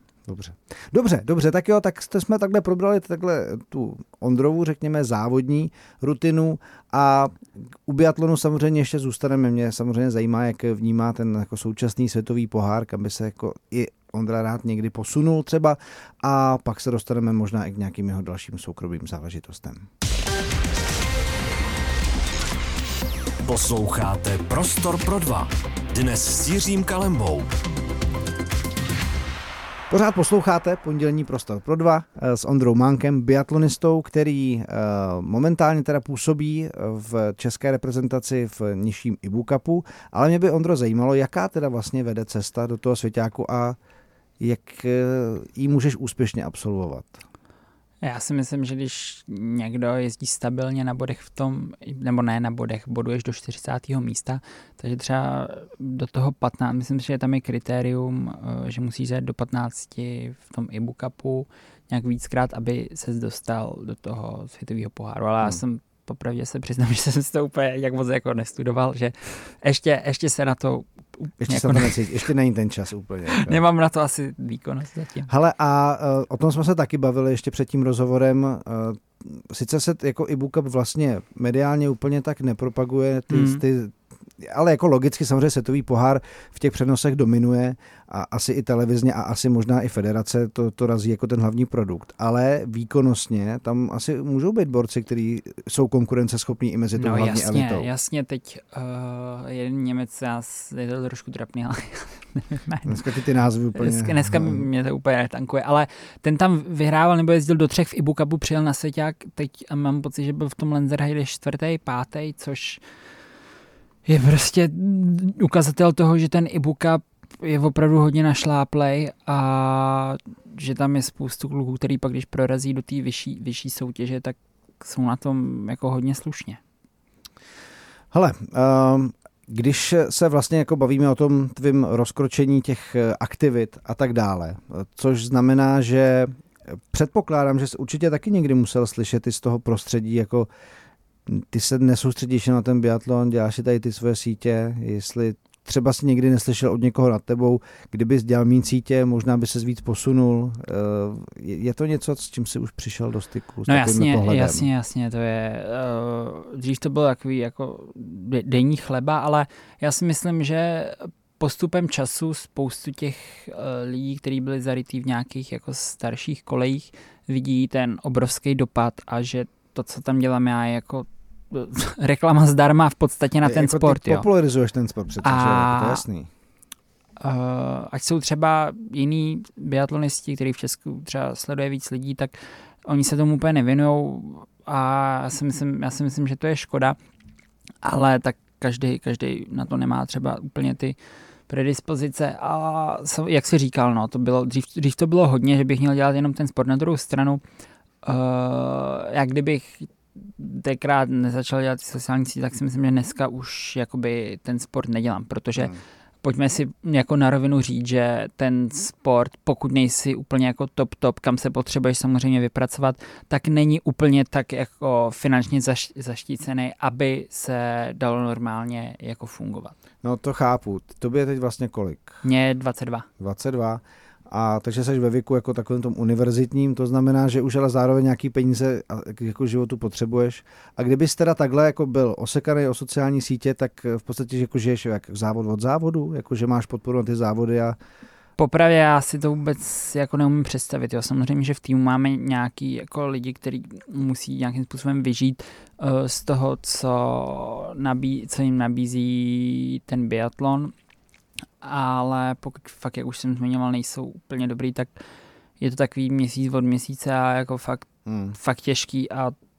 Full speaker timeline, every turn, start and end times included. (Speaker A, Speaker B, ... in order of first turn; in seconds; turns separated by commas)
Speaker A: 0.2-19.9, Speaker B: 23.4-27.5, Speaker A: 29.9-43.8, Speaker A: 44.4-47.2, Speaker C: 48.0-72.2, Speaker A: 71.4-73.6, Speaker C: 73.3-75.3, Speaker A: 75.3-97.9, Speaker C: 83.3-83.6, Speaker C: 97.0-103.0, Speaker A: 102.8-104.6, Speaker C: 103.7-112.8, Speaker C: 114.0-126.6, Speaker A: 128.1-140.5, Speaker A: 141.3-154.6, Speaker C: 153.7-174.2, Speaker A: 173.4-176.3, Speaker C: 175.2-176.0, Speaker C: 177.2-187.0, Speaker C: 187.8-190.9, Speaker C: 191.5-197.4, Speaker C: 198.0-219.8, Speaker A: 220.0-222.2, Speaker C: 222.2-223.1, Speaker A: 223.2-237.8, Speaker C: 238.4-250.7, Speaker C: 251.6-255.0, Speaker C: 255.6-259.3, Speaker A: 258.1-258.4